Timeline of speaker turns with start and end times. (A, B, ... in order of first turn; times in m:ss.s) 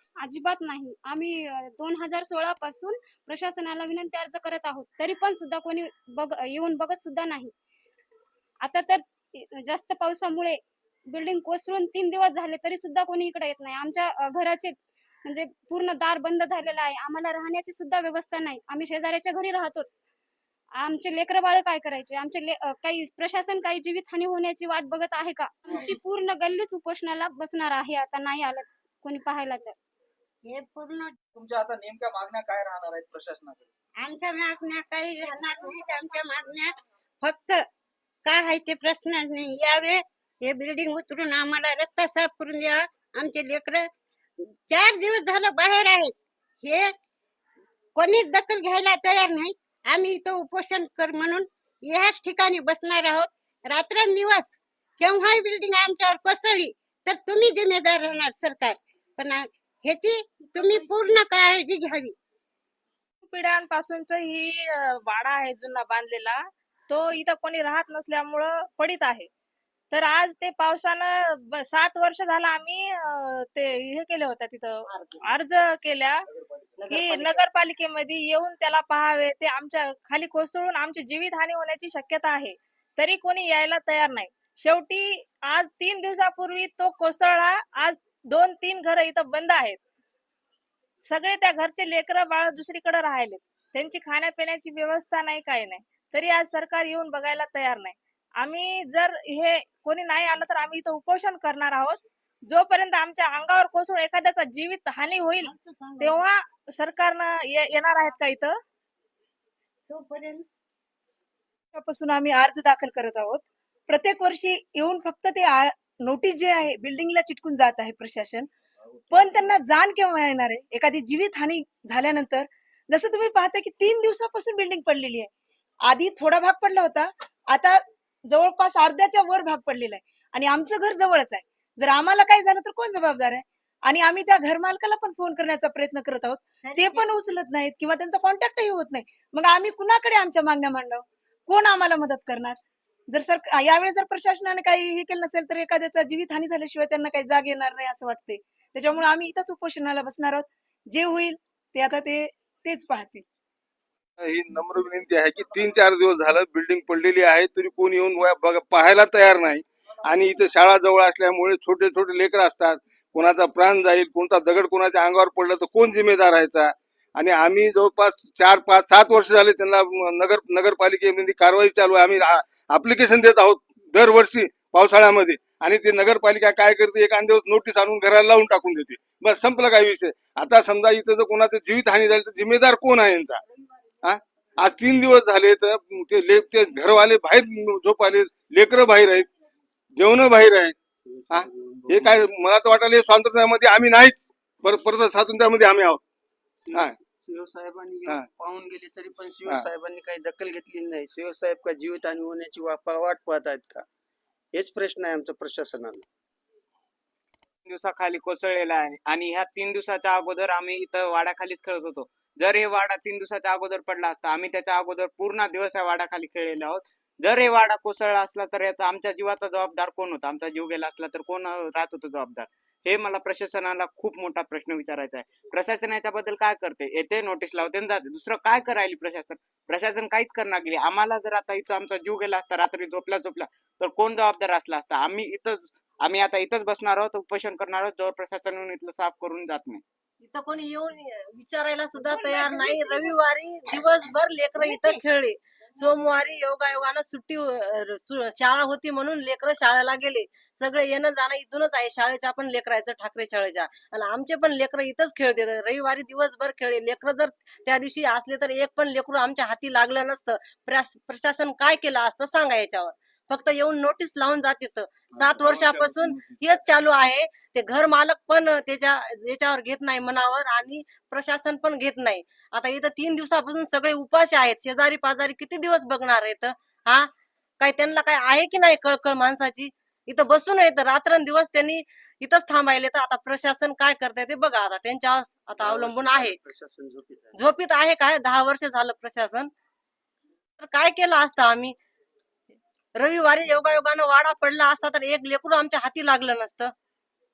0:00.2-0:07.5 A
0:08.6-0:10.6 A
0:11.1-0:19.9 A
0:20.8-0:29.8 A
0:30.4-0:31.1 B
0:31.4-0:33.6 C
0:34.0-0:37.7 B
0:38.2-0:43.9 B
0:44.7-0:46.9 B
0:47.9-1:02.2 B
1:03.2-1:09.3 D
1:09.9-1:16.3 D
1:14.9-1:15.2 E
1:16.9-1:17.4 E
1:16.9-1:29.8 D
1:31.0-1:48.6 D
1:45.6-1:45.9 B
1:49.9-1:50.5 B
1:51.7-1:58.5 F
1:59.1-2:05.3 F
2:05.8-2:33.2 F
2:34.2-3:03.4 G
3:04.0-3:09.3 G
3:10.0-3:10.8 G
3:11.1-3:12.2 H
3:11.3-3:16.0 G
3:16.7-3:23.8 H
3:24.5-3:26.1 H
3:27.7-3:59.8 I
4:00.2-4:37.1 E
4:37.6-4:46.4 E
4:45.6-4:47.4 H
4:47.4-4:49.5 E
4:50.6-4:51.8 E
4:53.0-4:56.7 E